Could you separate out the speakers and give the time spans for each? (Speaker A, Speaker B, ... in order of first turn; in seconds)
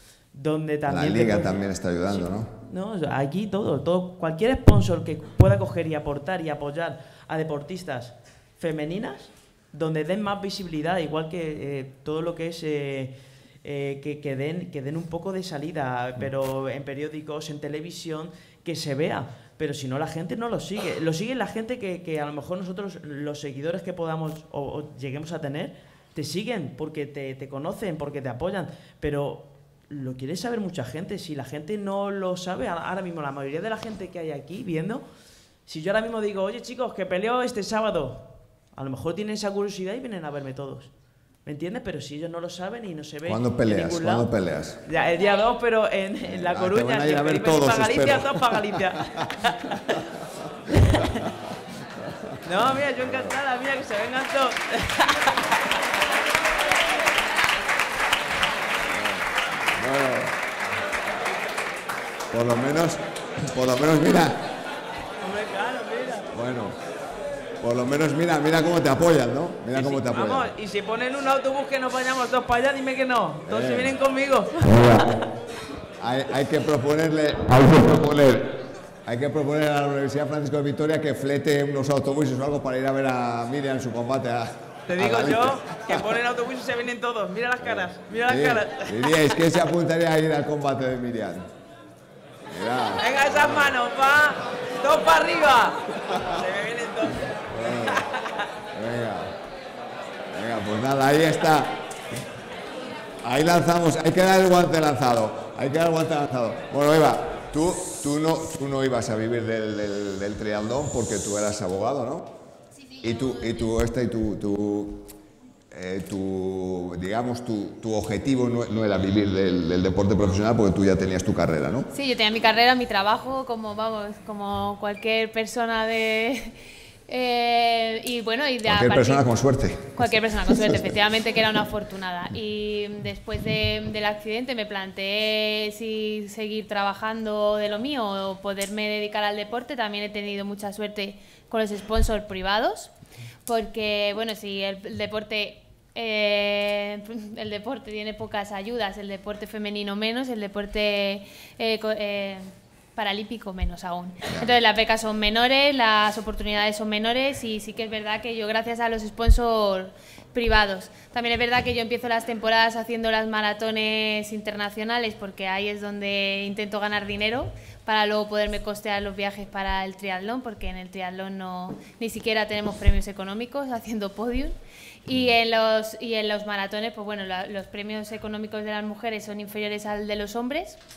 Speaker A: 0.3-35.0, 35.7-40.9, 41.5-44.3, 44.8-50.0, 50.7-51.1, 52.4-55.6, 65.2-66.3, 69.7-75.2, 84.9-89.3, 93.0-98.4
Speaker B: 0.9-2.5, 43.2-44.8, 46.2-49.0, 53.0-53.4, 58.9-60.3, 62.3-64.4, 66.3-66.8, 67.6-70.5, 73.5-73.9, 74.8-75.1, 76.0-85.9, 87.6-91.5, 92.5-93.7, 97.5-98.1, 98.7-99.3, 100.3-101.7, 103.2-112.3, 113.0-115.1, 115.7-121.9, 128.6-130.9
Speaker C: 121.9-126.5, 127.1-129.2, 129.9-142.9, 143.4-180.8